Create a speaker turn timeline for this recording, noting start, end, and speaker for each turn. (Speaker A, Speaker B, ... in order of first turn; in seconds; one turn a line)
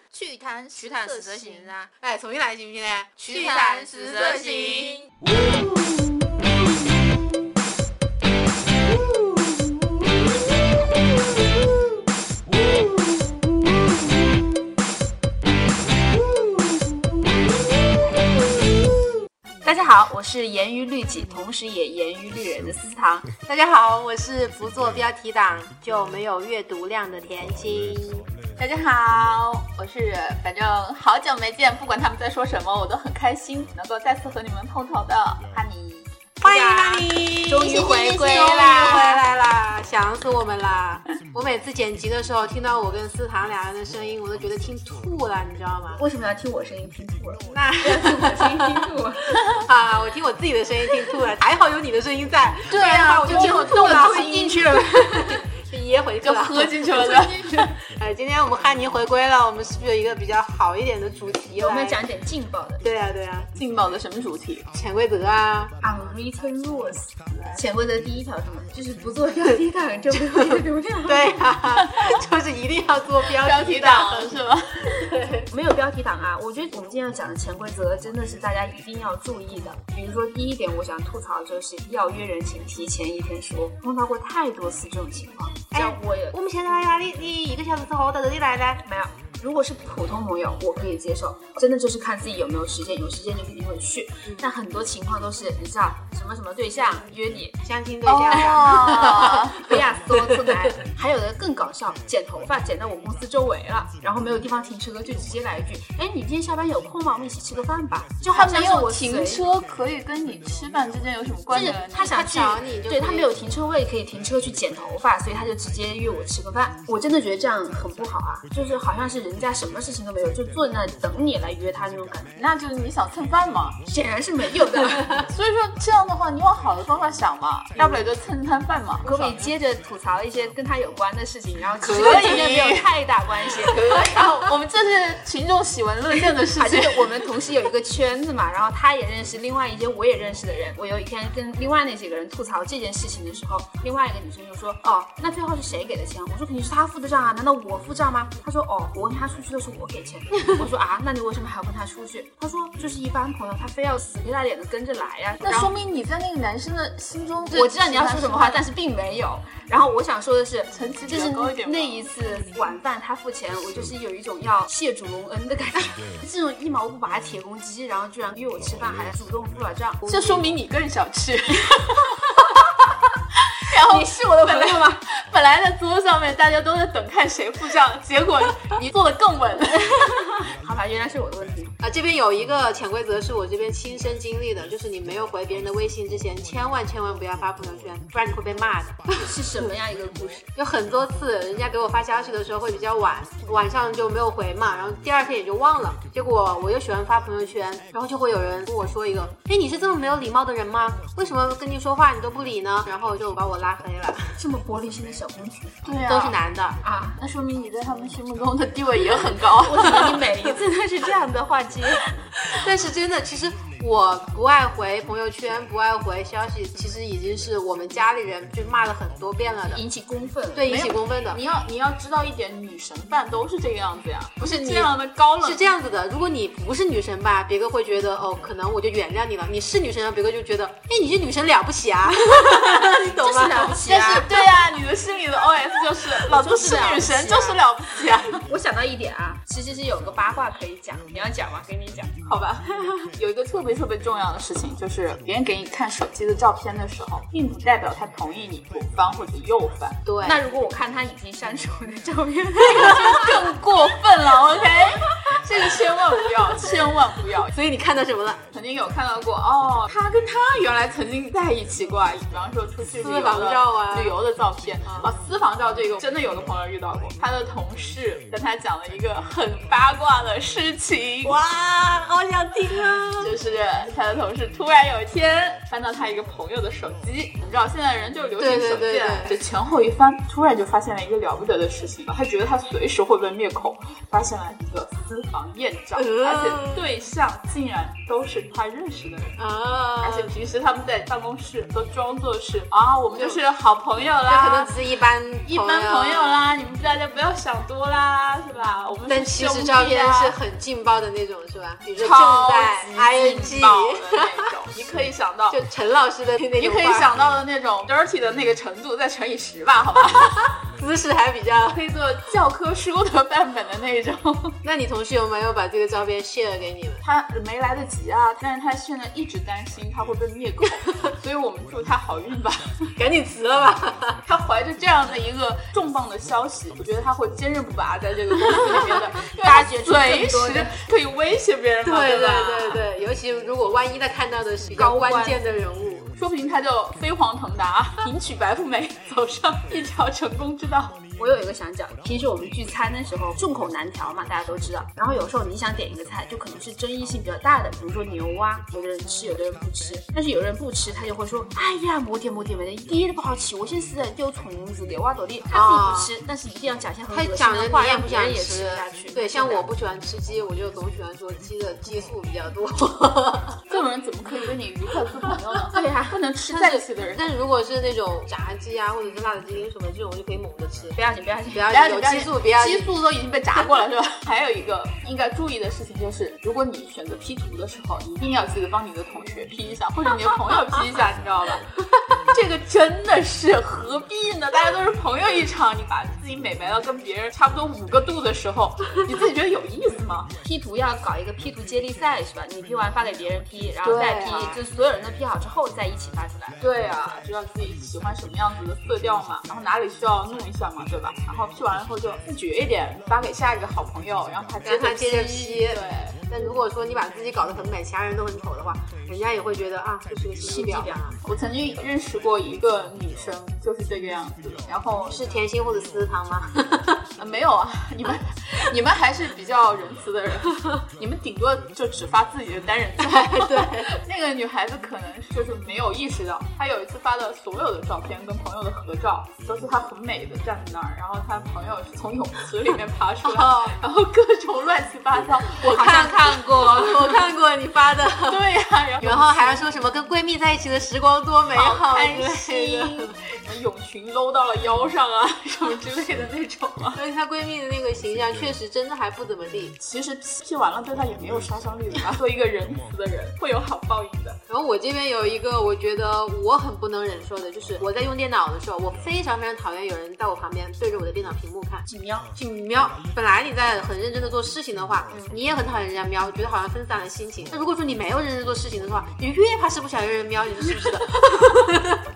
Speaker A: 0.1-1.7
Speaker B: 0.7-1.9
Speaker C: 1.9-5.0
Speaker A: 3.2-4.9
Speaker B: 4.1-4.9
Speaker B: 19.6-23.3
Speaker C: 23.5-28.3
Speaker A: 28.6-36.1
Speaker C: 36.4-46.0
Speaker B: 36.4-39.2
Speaker B: 46.0-49.2
Speaker C: 47.5-48.9
Speaker C: 49.5-62.0
Speaker A: 52.7-54.6
Speaker B: 52.7-55.4
Speaker A: 56.2-57.7
Speaker B: 57.0-57.6
Speaker B: 61.6-62.8
Speaker C: 62.8-63.5
Speaker A: 63.5-64.7
Speaker C: 64.7-65.8
Speaker B: 65.8-71.4
Speaker C: 70.1-74.3
Speaker A: 73.2-74.7
Speaker C: 74.9-75.5
Speaker B: 75.5-86.4
Speaker C: 85.7-88.8
Speaker B: 88.8-97.5
Speaker C: 97.6-99.8
Speaker A: 98.0-99.7
Speaker B: 98.3-109.5
Speaker A: 108.3-112.2
Speaker B: 111.5-122.3
Speaker C: 112.0-113.3
Speaker A: 122.3-123.8
Speaker B: 123.8-125.2
Speaker A: 125.2-129.5
Speaker B: 129.0-133.8
Speaker A: 131.8-132.9
Speaker A: 133.4-137.2
Speaker B: 136.6-155.7
Speaker A: 155.4-158.6
Speaker B: 157.5-170.1
Speaker A: 160.7-162.1
Speaker A: 170.1-172.3
Speaker A: 173.6-179.9
Speaker B: 173.8-175.0
Speaker B: 179.8-181.8
Speaker C: 181.8-189.7
Speaker B: 189.2-190.5
Speaker C: 190.6-204.4
Speaker B: 204.4-205.8
Speaker A: 205.8-206.4
Speaker C: 206.1-206.8
Speaker B: 206.8-207.2
Speaker A: 207.2-210.2
Speaker B: 209.6-212.1
Speaker C: 212.4-219.8
Speaker B: 219.7-220.7
Speaker C: 220.6-221.4
Speaker A: 220.7-225.7
Speaker C: 224.4-233.8
Speaker B: 232.7-234.3
Speaker A: 233.8-238.4
Speaker B: 236.3-237.7
Speaker B: 238.4-242.1
Speaker A: 242.2-250.0
Speaker C: 250.1-250.4
Speaker B: 250.2-253.5
Speaker A: 252.7-257.5
Speaker C: 257.5-258.4
Speaker A: 258.5-271.4
Speaker C: 263.0-264.2
Speaker C: 264.9-265.1
Speaker C: 271.2-273.3
Speaker A: 273.2-289.4
Speaker C: 278.4-279.4
Speaker C: 285.9-286.9
Speaker C: 289.4-290.3
Speaker A: 290.0-294.8
Speaker C: 293.1-293.4
Speaker C: 294.3-296.4
Speaker A: 295.4-300.4
Speaker C: 299.1-304.4
Speaker A: 302.0-305.6
Speaker C: 305.5-307.1
Speaker A: 306.6-310.5
Speaker C: 310.2-311.8
Speaker A: 311.7-314.6
Speaker C: 314.6-317.0
Speaker A: 317.0-322.9
Speaker C: 323.0-324.2
Speaker A: 324.2-332.8
Speaker B: 329.4-330.7
Speaker C: 331.8-336.1
Speaker B: 334.8-335.4
Speaker A: 336.2-341.0
Speaker B: 341.2-359.6
Speaker C: 355.5-356.1
Speaker C: 357.1-363.6
Speaker A: 363.7-367.3
Speaker B: 365.7-366.6
Speaker C: 366.5-371.0
Speaker B: 370.9-371.7
Speaker C: 371.5-372.9
Speaker A: 371.7-390.3
Speaker B: 390.4-396.6
Speaker A: 393.8-394.6
Speaker A: 396.6-406.2
Speaker C: 404.6-411.2
Speaker B: 410.6-411.0
Speaker A: 410.6-415.2
Speaker C: 415.1-417.1
Speaker A: 417.2-435.6
Speaker C: 423.0-423.9
Speaker C: 433.2-433.8
Speaker C: 435.6-438.5
Speaker B: 435.6-437.3
Speaker A: 438.3-439.7
Speaker C: 439.0-443.1
Speaker A: 441.5-447.0
Speaker C: 446.9-449.8
Speaker A: 449.8-454.4
Speaker C: 454.5-472.0
Speaker B: 461.9-462.3